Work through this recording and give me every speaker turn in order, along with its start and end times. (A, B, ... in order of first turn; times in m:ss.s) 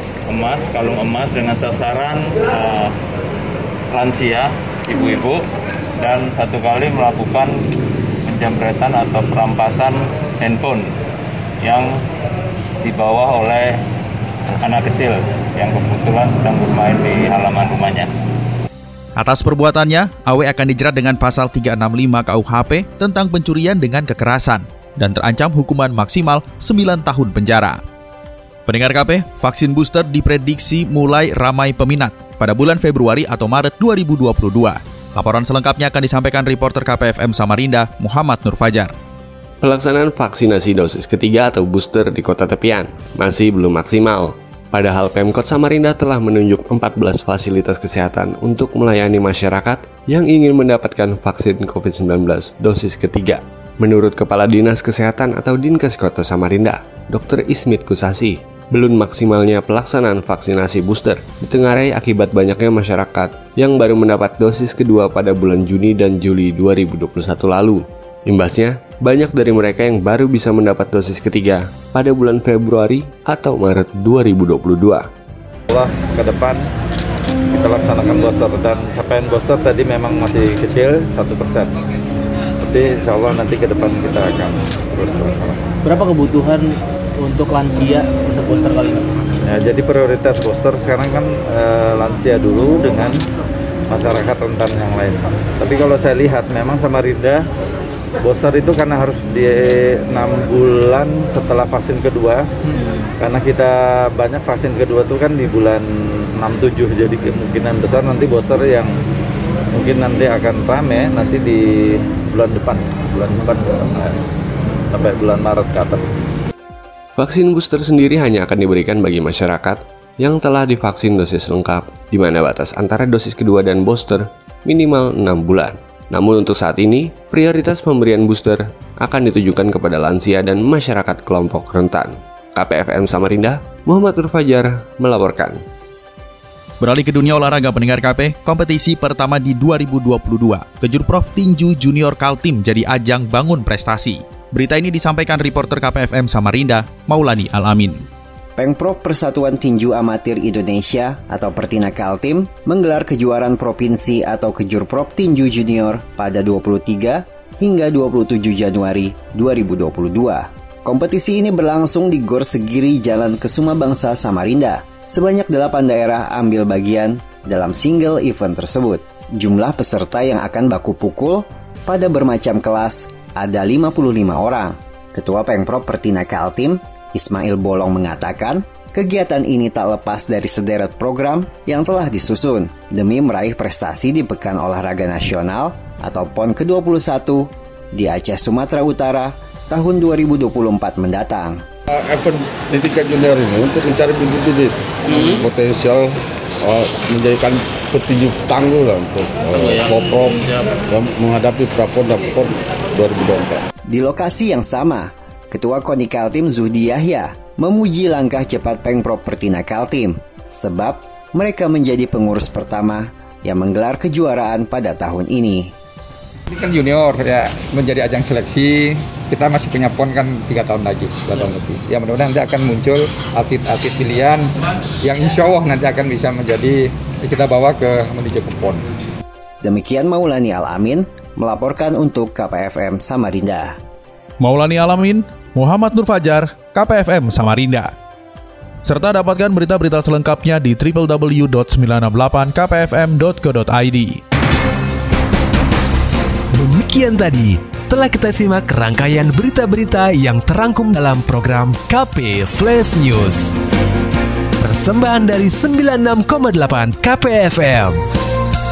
0:00.3-0:02.9 A
0:03.9-0:05.4 A
0:06.0-0:07.5 A
0:08.3-0:10.8 A
0:11.6-0:11.9 A
0:12.8-0:13.8 A
0:14.6-0:18.1 A
0:19.2-0:27.8 B
0:28.7-0:38.9 B
0:39.6-1:15.1 C
1:15.7-1:16.6 D
1:17.5-1:21.8 D
1:22.6-1:25.6 D
1:25.8-1:29.1 E
1:29.4-1:33.2 D
1:33.9-1:37.4 D
1:38.2-1:42.5 D
1:43.2-1:48.9 D
1:49.7-1:54.2 D
1:54.9-1:56.0 D
1:57.2-2:15.6 C
2:16.8-2:28.0 B
2:28.6-3:11.6 F
3:11.9-3:23.7 G
3:23.9-3:35.7 F
3:36.6-3:38.7 H
3:39.3-3:44.3 H
3:45.1-3:46.7 H
3:45.1-3:46.6 G
3:48.1-3:48.6 H
3:48.2-3:48.8 G
3:49.6-3:53.8 F
3:54.4-3:57.9 B
3:58.8-4:04.2 B
4:06.6-4:13.5 I
4:14.6-4:18.0 I